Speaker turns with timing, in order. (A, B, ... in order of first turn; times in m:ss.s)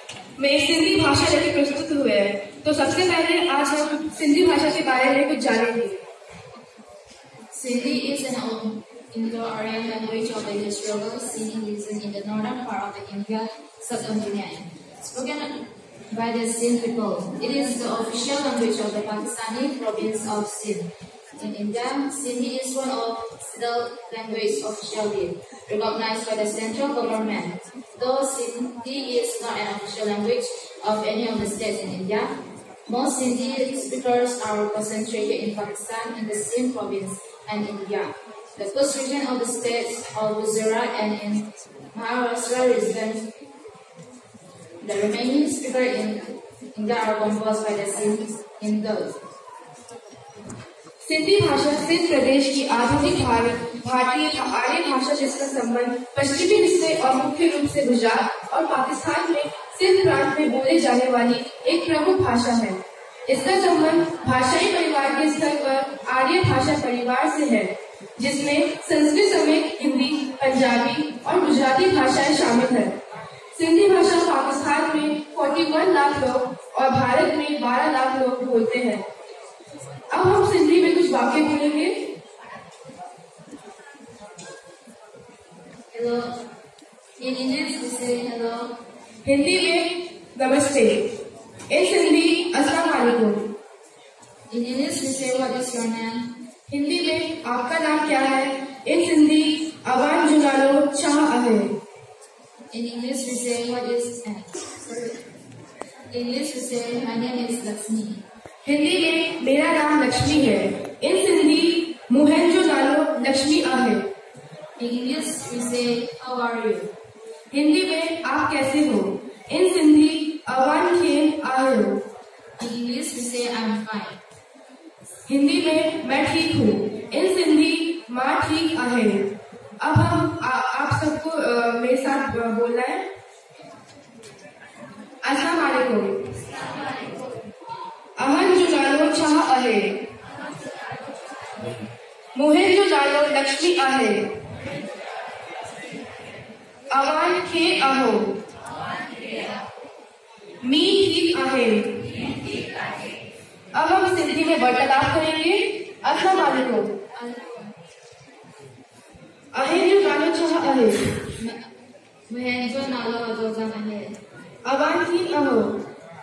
0:00.4-0:06.0 A
0:07.5-0:15.5 B
0:16.1-0:32.3 B
0:32.9-0:43.3 B
0:44.8-0:49.1 B
0:51.0-1:13.0 A
1:13.5-1:19.0 A
1:20.1-1:22.0 A
1:25.9-1:26.3 B
1:27.2-1:28.8 B
1:29.2-1:31.1 A
1:31.7-1:33.5 A
1:34.5-1:36.3 B
1:36.7-1:41.8 A
1:42.7-1:45.2 B
1:46.1-1:48.2 B
1:48.6-1:54.0 A
1:54.8-1:56.9 B
1:57.5-2:02.0 A
2:02.6-2:04.2 B
2:05.3-2:13.0 A
2:15.2-2:16.4 A
2:18.2-2:20.0 A
2:22.3-2:24.3 A
2:26.9-2:28.3 A
2:30.6-2:32.2 A
2:33.7-2:37.0 A
2:37.1-2:37.7 B
2:39.5-2:41.1 A
2:41.4-2:41.7 B
2:42.3-2:44.2 B
2:44.6-2:45.8 A